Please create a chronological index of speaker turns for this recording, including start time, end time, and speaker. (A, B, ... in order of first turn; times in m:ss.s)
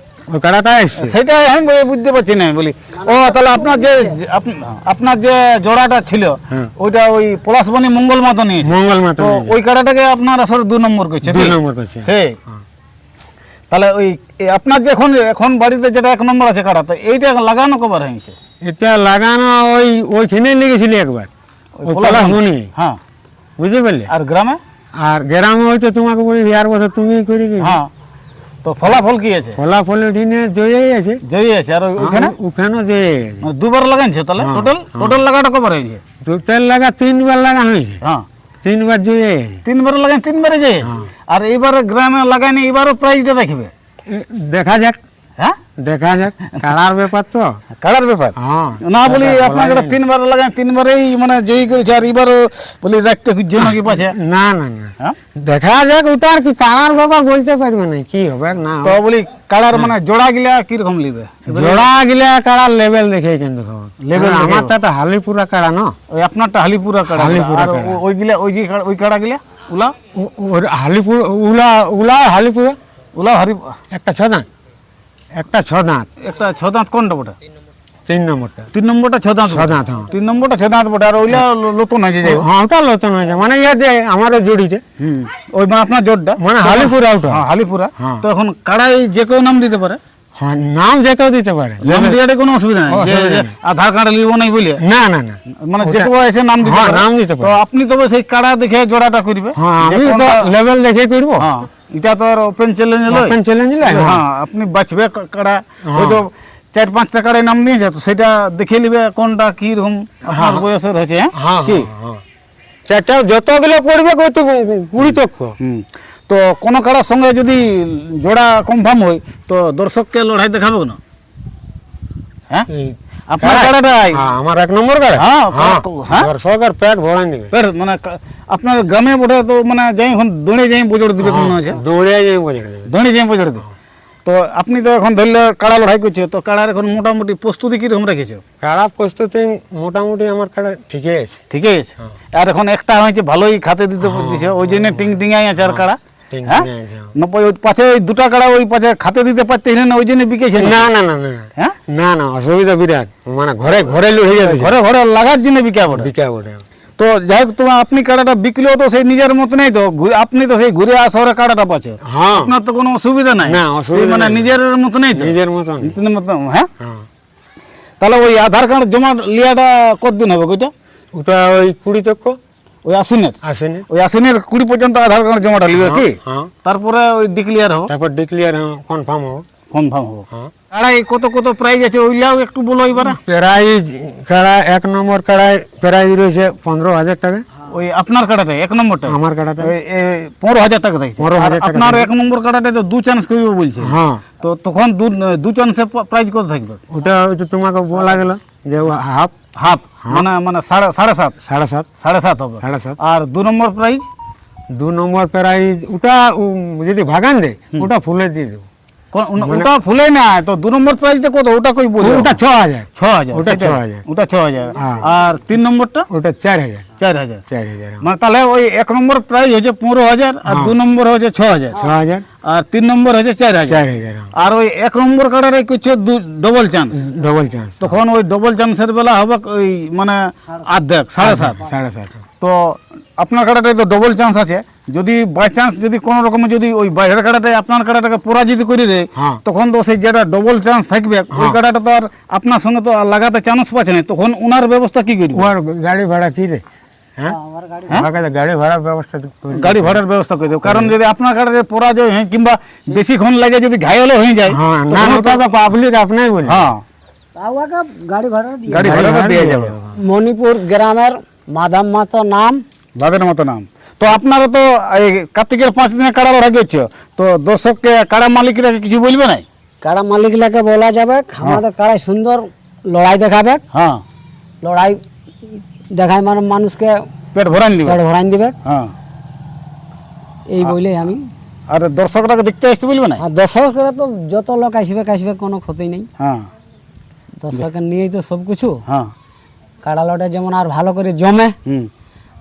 0:00.3-0:01.2 A
0:01.0-0:12.4 B
0:02.9-0:04.2 C
0:08.6-0:09.6 A
0:11.2-0:12.1 A
0:13.7-0:18.4 B
0:18.6-0:21.3 A
0:21.8-0:23.0 B
0:21.9-0:22.7 A
0:23.6-0:24.1 A
0:24.1-0:24.6 B
0:25.0-0:27.8 A
0:27.6-0:27.9 B
0:28.6-0:29.6 B
0:29.6-0:31.2 A
0:31.2-0:32.3 B
0:32.0-0:33.4 A
0:33.4-0:36.0 B
0:34.4-0:35.2 A
0:36.2-0:38.0 A
0:38.6-0:39.6 A
0:39.6-0:43.7 B
0:40.8-0:41.1 A
0:44.1-0:45.0 A
0:45.8-0:47.6 A
0:47.8-0:54.1 B
0:48.4-0:50.0 A
0:53.6-0:59.0 A
0:58.8-1:01.9 B
1:01.5-1:05.9 A
1:04.0-1:04.7 B
1:06.1-1:09.9 B
1:07.1-1:08.0 A
1:10.1-1:12.8 A
1:13.2-1:13.7 B
1:13.9-1:14.5 A
1:15.4-1:16.1 A
1:16.2-1:17.3 B
1:18.1-1:18.7 A
1:18.7-1:22.4 B
1:19.5-1:20.1 A
1:22.2-1:24.8 A
1:25.0-1:30.0 B
1:26.4-1:27.4 A
1:28.0-1:28.2 A
1:30.4-1:32.2 A
1:31.8-1:34.8 B
1:32.9-1:33.5 A
1:34.8-1:36.1 A
1:35.6-1:40.5 B
1:36.6-1:37.6 A
1:39.5-1:41.5 A
1:41.4-1:51.9 B
1:43.1-1:44.2 A
1:45.8-1:46.2 A
1:50.3-1:50.6 A
1:51.3-1:52.2 A
1:52.9-1:55.6 A
1:55.1-2:01.0 B
2:02.7-2:07.5 A
2:03.3-2:04.2 B
2:05.2-2:06.3 B
2:07.5-2:11.8 B
2:11.2-2:12.9 A
2:12.9-2:13.6 B
2:14.2-2:18.4 B
2:18.6-2:21.4 A
2:21.5-2:30.9 B
2:24.0-2:27.1 A
2:30.5-2:34.7 A
2:34.3-2:36.1 B
2:35.9-2:36.6 A
2:37.0-2:46.7 B
2:42.0-2:42.5 A
2:43.4-2:44.5 A
2:45.1-2:46.0 A
2:46.8-2:47.0 A
2:48.0-2:50.7 B
2:51.2-2:52.4 A
2:52.8-2:53.4 B
2:53.4-2:53.8 A
2:53.9-2:57.9 B
2:55.7-2:56.5 A
2:57.9-2:59.4 A
2:59.7-3:03.2 B
3:03.0-3:07.4 A
3:07.7-3:16.8 B
3:09.0-3:09.7 A
3:11.2-3:12.1 A
3:13.8-3:14.2 A
3:16.9-3:19.3 A
3:19.6-3:21.3 B
3:21.4-3:21.9 A
3:22.0-3:24.1 B
3:22.6-3:23.0 A
3:24.7-3:28.7 A
3:29.1-3:32.4 B
3:29.4-3:29.7 A
3:32.0-3:34.0 A
3:33.0-3:36.0 B
3:34.8-3:35.0 A
3:36.1-3:36.8 A
3:37.0-3:37.4 B
3:37.5-3:38.0 A
3:38.0-3:41.8 B
3:40.4-3:40.7 A
3:41.7-3:42.2 A
3:42.4-3:43.8 B
3:43.7-3:44.3 A
3:44.4-3:47.0 B
3:46.9-3:48.0 A
3:47.8-3:51.6 B
3:51.2-3:52.2 A
3:52.4-4:05.5 B
3:59.2-3:59.4 A
4:01.3-4:01.6 A
4:05.3-4:06.6 A
4:07.3-4:08.1 C
4:07.9-4:10.0 A
4:09.5-4:15.4 B
4:10.6-4:10.9 A
4:14.5-4:16.7 A
4:16.4-4:16.8 B
4:17.4-4:19.0 C
4:18.7-4:19.8 B
4:18.7-4:20.0 A
4:20.0-4:22.6 C
4:23.0-4:29.4 B
4:29.8-4:33.6 C
4:33.7-4:34.0 B
4:34.6-4:35.0 C
4:35.9-4:37.0 C
4:37.3-4:38.0 B
4:37.8-4:38.6 C
4:38.6-4:38.9 B
4:40.5-4:41.2 C
4:41.7-4:43.2 B
4:43.2-4:46.1 C
4:46.2-4:46.5 B
4:47.4-4:48.8 C
4:49.8-4:51.5 C